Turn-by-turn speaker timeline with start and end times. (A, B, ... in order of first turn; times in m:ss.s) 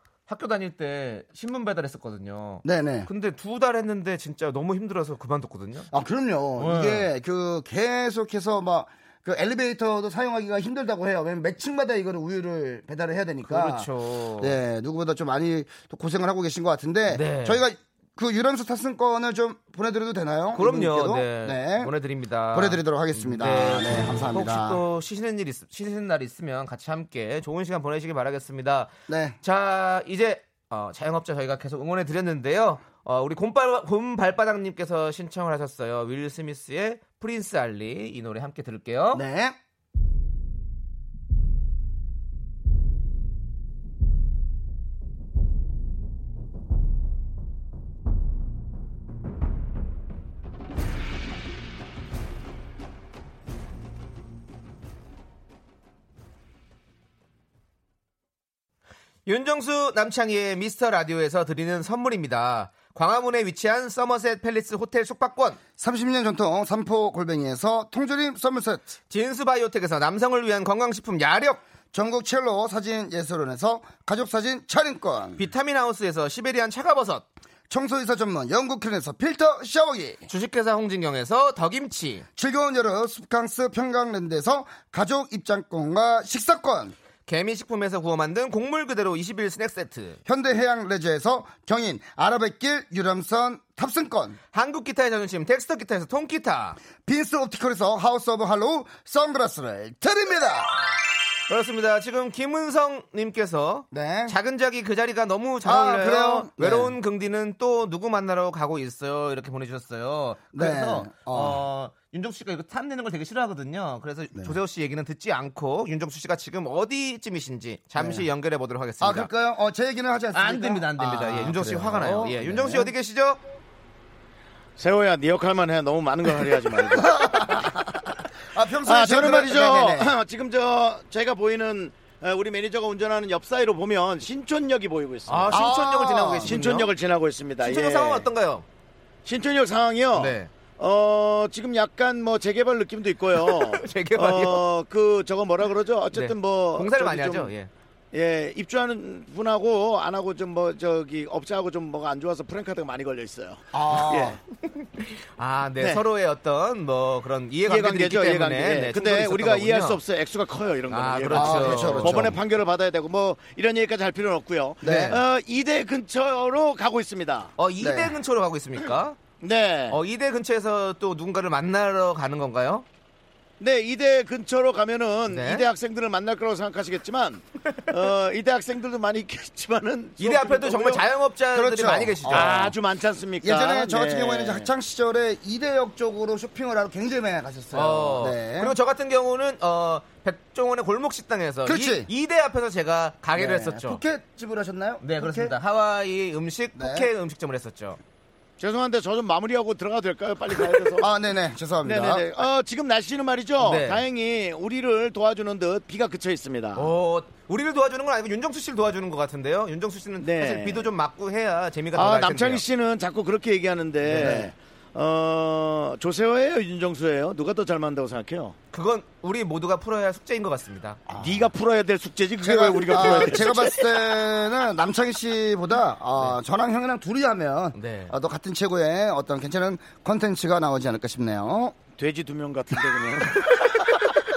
0:00.3-0:05.9 A
0:02.6-0:03.1 B
0:05.9-0:13.9 B
0:06.6-0:07.1 A
0:13.4-0:14.6 A
0:14.4-0:21.9 B
0:17.1-0:17.6 A
0:20.5-0:39.2 A
0:22.5-0:24.8 B
0:29.1-0:29.4 B
0:39.1-0:39.6 B
0:59.3-1:05.6 A
1:05.8-1:08.9 B
1:09.1-1:11.6 A
1:11.9-1:15.4 B
1:15.4-1:17.3 A
1:17.7-1:20.2 B
1:20.3-1:22.3 A
1:22.4-1:27.0 B
1:27.3-1:30.2 A
1:30.3-1:34.4 B
1:34.5-1:36.8 A
1:37.0-1:40.7 B
1:41.5-1:59.3 A
1:43.9-1:44.3 B
1:45.6-1:46.9 B
1:50.5-1:51.6 B
1:58.0-1:58.3 B
1:59.0-2:02.9 B
2:00.3-2:03.4 A
2:04.8-2:07.2 C
2:06.9-2:07.7 B
2:08.5-2:10.1 B
2:08.8-2:15.7 C
2:15.3-2:16.9 A
2:15.5-2:16.6 B
2:16.4-2:18.3 C
2:17.6-2:18.7 A
2:19.2-2:27.5 C
2:20.2-2:20.5 A
2:23.4-2:24.6 A
2:26.1-2:27.7 A
2:28.1-2:34.4 C
2:33.7-2:34.4 B
2:35.0-2:40.0 A
2:37.7-2:47.5 C
2:40.9-2:42.4 A
2:41.3-2:42.4 B
2:44.8-2:45.2 B
2:44.8-2:45.2 A
2:47.6-2:49.2 A
2:47.8-2:48.1 B
2:49.4-2:50.0 C
2:49.9-2:52.9 A
2:53.6-3:01.0 C
2:55.3-2:55.7 A
3:00.2-3:02.7 A
3:01.5-3:02.7 B
3:02.3-3:04.7 C
3:03.4-3:08.7 B
3:07.7-3:14.0 A
3:11.7-3:12.1 B
3:13.4-3:15.5 B
3:15.0-3:18.0 A
3:16.8-3:17.1 B
3:18.6-3:21.1 C
3:21.0-3:22.3 B
3:21.8-3:26.9 C
3:23.6-3:24.0 A
3:26.8-3:32.6 A
3:30.2-3:30.9 C
3:32.0-3:38.6 C
3:34.1-3:34.5 B
3:38.7-3:41.0 A
3:41.1-3:41.5 B
3:41.2-3:44.2 C
3:42.4-3:51.8 B
3:43.0-3:43.4 A
3:47.8-3:48.1 A
3:52.0-3:54.1 C